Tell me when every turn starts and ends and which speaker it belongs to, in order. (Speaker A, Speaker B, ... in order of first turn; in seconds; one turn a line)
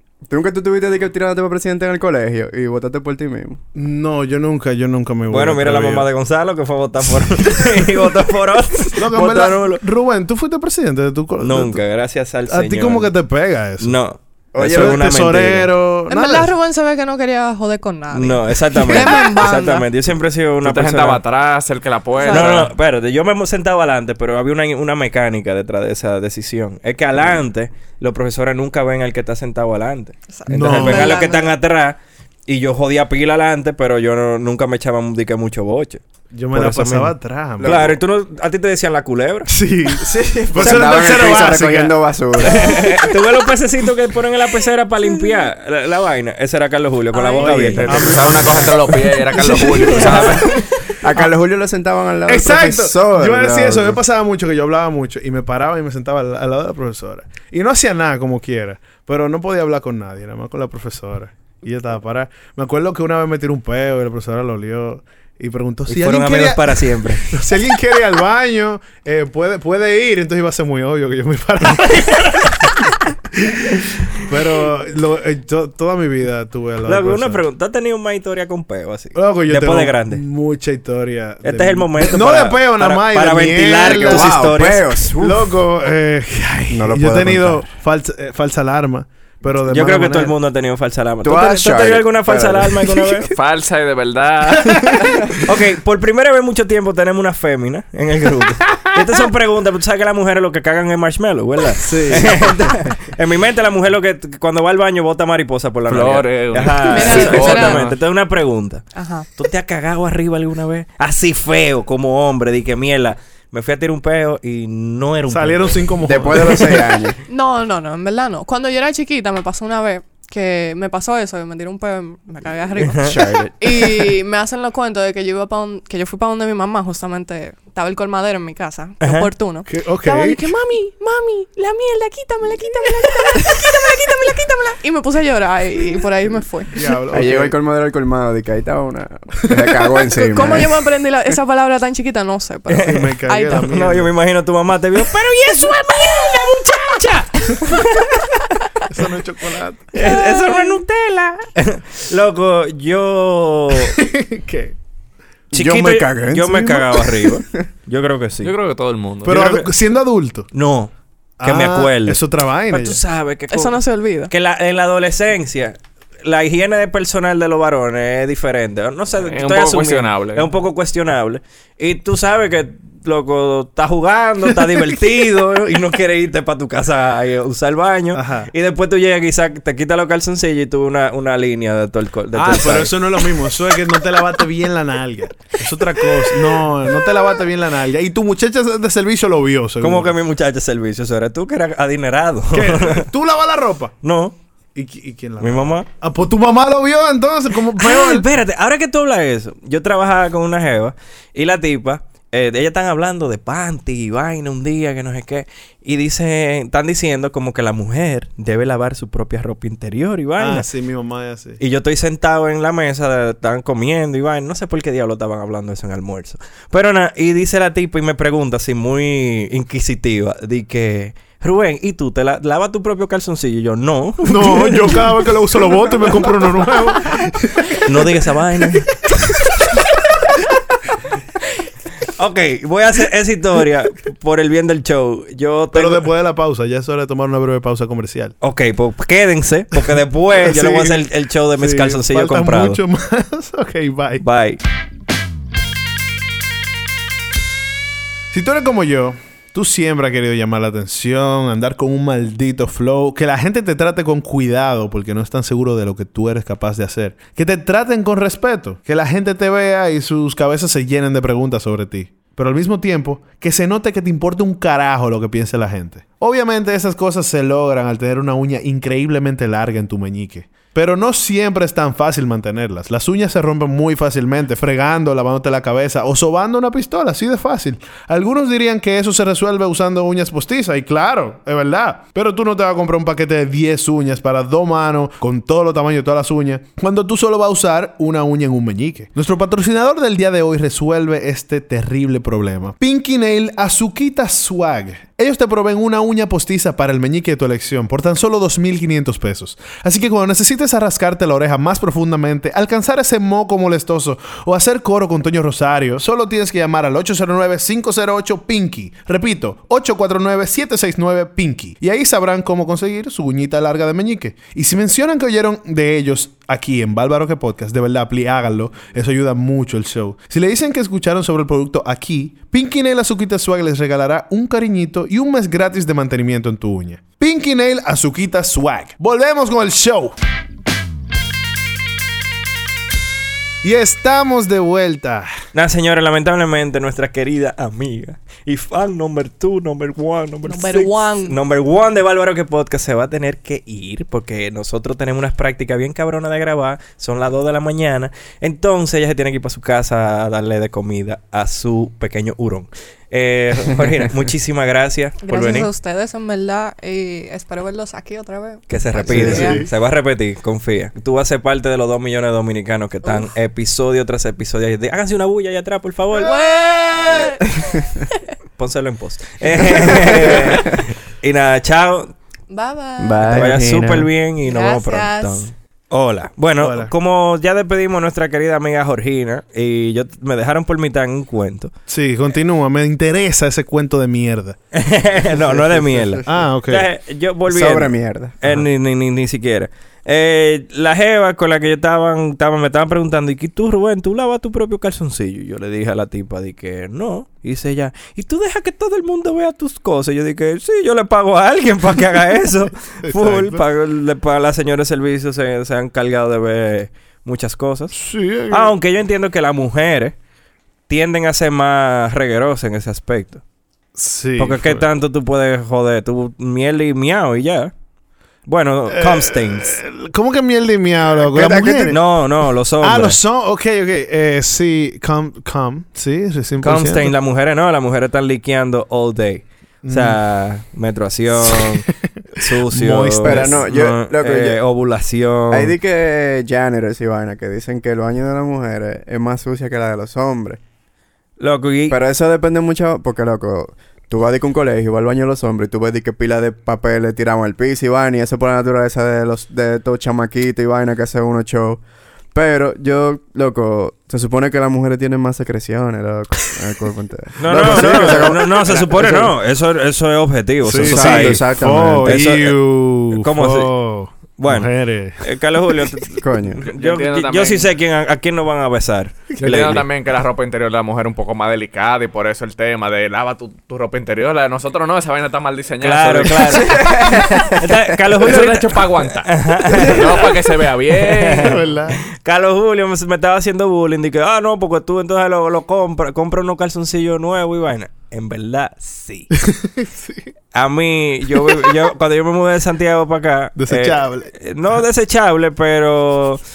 Speaker A: 0.2-3.6
Speaker B: 3.7-6.1
Speaker C: 5.3-9.8
Speaker B: 7.2-7.9
Speaker B: 8.9-11.9
Speaker C: 11.4-13.1
Speaker B: 12.4-14.0
Speaker C: 13.8-15.7
Speaker A: 14.5-15.1
Speaker B: 14.6-16.5
Speaker D: 16.1-19.9
Speaker C: 18.1-21.2
Speaker E: 20.6-22.7
Speaker D: 22.2-22.6
Speaker C: 22.2-36.0
Speaker D: 30.3-31.5
Speaker B: 30.5-31.2
Speaker B: 36.3-37.9
Speaker C: 36.5-39.5
Speaker A: 37.6-38.0
Speaker B: 39.5-42.0
Speaker A: 40.3-43.1
Speaker C: 42.4-48.4
Speaker D: 47.1-47.5
Speaker B: 47.4-50.6
Speaker E: 47.5-50.5
Speaker A: 49.4-50.4
Speaker A: 51.0-54.0
Speaker B: 52.2-72.7
Speaker C: 65.9-67.3
Speaker B: 73.3-77.4
Speaker C: 76.8-80.2
Speaker B: 79.1-84.5
Speaker C: 81.4-85.0
Speaker A: 83.8-85.5
Speaker B: 85.2-90.3
Speaker A: 86.7-87.7
Speaker C: 89.7-93.3
Speaker A: 91.2-93.3
Speaker E: 93.3-95.1
Speaker C: 95.4-108.8
Speaker A: 101.8-102.4
Speaker E: 105.9-108.0
Speaker D: 106.9-107.8
Speaker D: 108.9-109.3
Speaker C: 109.3-115.9
Speaker B: 115.3-116.8
Speaker A: 116.0-117.2
Speaker D: 117.3-136.8
Speaker C: 122.8-123.2
Speaker A: 122.9-123.9
Speaker C: 129.0-129.3
Speaker B: 129.7-130.4
Speaker B: 136.7-137.6
Speaker A: 137.1-140.7
Speaker B: 139.5-139.7
Speaker D: 140.1-143.6
Speaker B: 140.4-140.7
Speaker C: 142.7-148.1
Speaker B: 142.8-144.1
Speaker D: 145.1-147.2
Speaker B: 148.9-149.9
Speaker C: 149.9-153.9
Speaker D: 150.0-150.8
Speaker B: 153.8-154.7
Speaker A: 155.5-157.6
Speaker C: 155.5-158.5
Speaker E: 158.4-159.3
Speaker B: 159.2-160.5
Speaker C: 159.2-159.7
Speaker C: 160.5-183.0
Speaker B: 161.4-163.0
Speaker D: 163.5-164.3
Speaker E: 169.2-170.5
Speaker B: 174.6-174.8
Speaker B: 178.1-178.5
Speaker B: 182.3-190.2
Speaker C: 189.8-193.1
Speaker B: 192.5-193.9
Speaker C: 194.0-194.3
Speaker B: 194.7-198.3
Speaker C: 195.4-195.9
Speaker C: 197.8-210.7
Speaker B: 210.4-211.6
Speaker C: 211.6-225.1
Speaker B: 224.2-228.1
Speaker C: 227.8-228.9
Speaker C: 232.2-236.1
Speaker B: 235.7-238.3
Speaker C: 238.4-242.8
Speaker B: 239.8-244.2
Speaker C: 244.2-244.6
Speaker B: 248.3-330.1
Speaker B: 333.6-335.3
Speaker C: 335.5-355.7
Speaker D: 340.4-341.4
Speaker D: 355.2-359.6
Speaker C: 358.7-366.3
Speaker A: 358.9-359.6
Speaker B: 359.1-359.6
Speaker D: 366.1-367.8
Speaker C: 368.6-372.1
Speaker A: 369.6-370.7
Speaker D: 372.5-373.4
Speaker A: 373.0-374.1
Speaker C: 373.2-381.7
Speaker D: 374.4-375.5
Speaker B: 376.6-376.9
Speaker B: 381.9-384.6
Speaker C: 384.7-407.9
Speaker A: 385.3-386.2
Speaker B: 386.2-386.9
Speaker A: 387.5-388.4
Speaker B: 403.1-403.6
Speaker B: 407.9-408.8
Speaker C: 408.5-410.1
Speaker C: 410.9-413.4
Speaker B: 413.9-414.9
Speaker C: 414.4-417.7
Speaker C: 418.4-419.7
Speaker B: 418.9-422.2
Speaker A: 421.2-422.0
Speaker C: 421.9-423.2
Speaker B: 422.7-427.2
Speaker C: 426.6-431.8
Speaker B: 429.8-430.2
Speaker B: 431.4-433.7
Speaker C: 432.4-435.7
Speaker A: 433.2-434.6
Speaker A: 435.5-440.6
Speaker C: 441.4-442.0
Speaker A: 441.9-451.8
Speaker A: 452.3-459.3
Speaker C: 457.4-463.7
Speaker B: 457.6-458.3
Speaker B: 460.6-465.2
Speaker A: 460.7-462.3
Speaker C: 464.3-469.8
Speaker A: 466.2-466.6
Speaker E: 466.7-467.7
Speaker B: 469.3-469.6
Speaker E: 469.4-477.1
Speaker C: 475.8-480.3
Speaker A: 476.5-477.6
Speaker E: 478.1-481.6
Speaker C: 481.0-489.3
Speaker B: 481.4-482.0
Speaker B: 489.3-490.3
Speaker C: 490.5-496.4
Speaker B: 491.3-491.7
Speaker B: 493.6-494.8